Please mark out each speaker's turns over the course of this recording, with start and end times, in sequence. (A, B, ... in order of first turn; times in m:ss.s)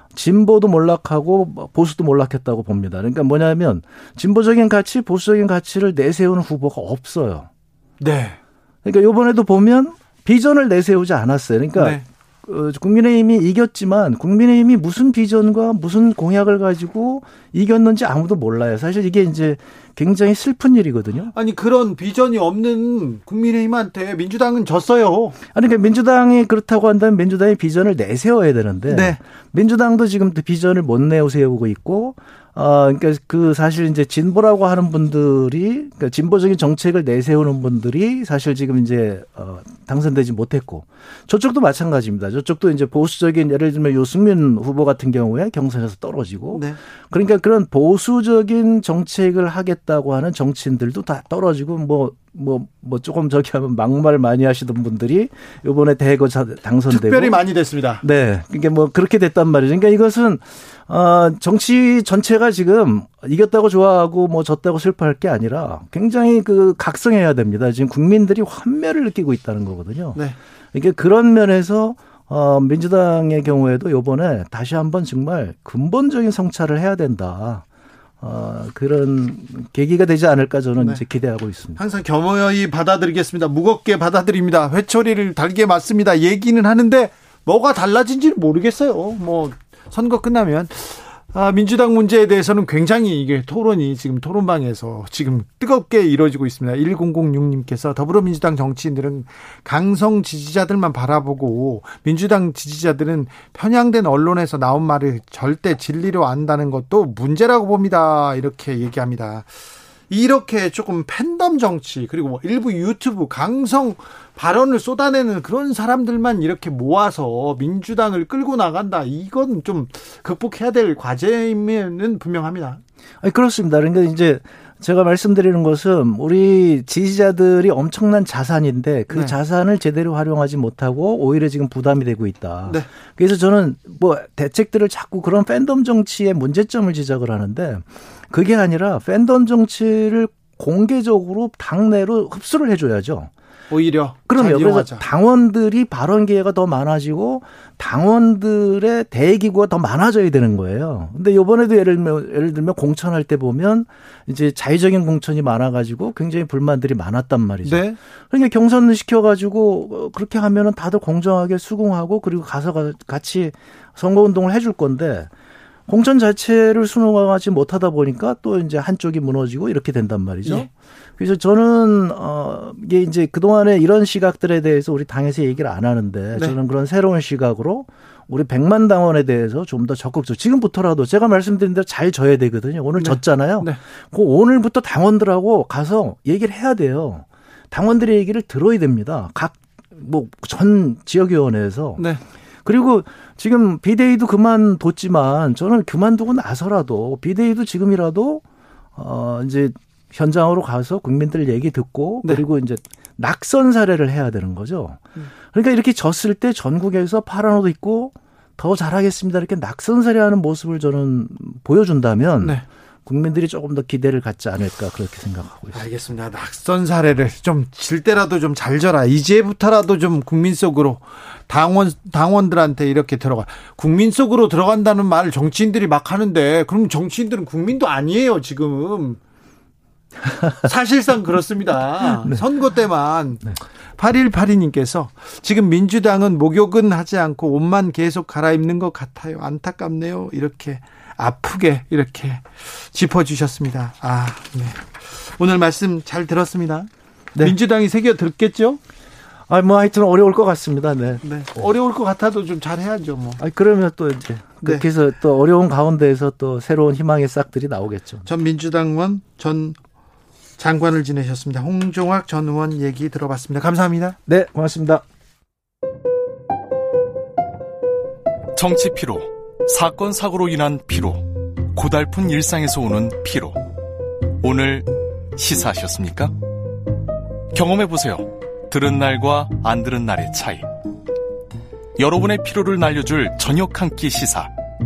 0:00.1-0:07.5 A
0:08.0-0:08.4 B
0:08.8-0:21.3 A
0:11.8-0:12.0 B
0:21.3-0:25.4 B
0:25.5-0:57.4 A
0:28.9-0:29.2 B
0:46.5-0:46.8 B
0:56.9-0:58.0 B
0:58.0-1:10.2 A
1:10.7-1:17.6 A
1:18.2-1:21.8 A
1:21.8-1:49.5 B
1:50.1-2:02.8 B
2:03.2-2:23.3 A
2:23.7-2:25.0 B
2:24.3-2:45.3 A
2:37.6-2:38.0 B
2:45.9-3:12.0 A
3:03.0-3:03.8 B
3:12.6-3:18.4 A
3:19.0-3:35.8 A
3:35.7-3:49.2 B
3:50.6-4:08.8 B
4:09.5-4:11.2 A
4:11.2-4:13.4 B
4:13.4-4:18.3 A
4:18.3-4:19.8 B
4:20.6-4:24.2 B
4:24.3-4:25.0 A
4:28.5-4:33.6 C
4:34.4-4:36.3 C
4:37.5-4:40.7 C
4:42.0-4:44.5 C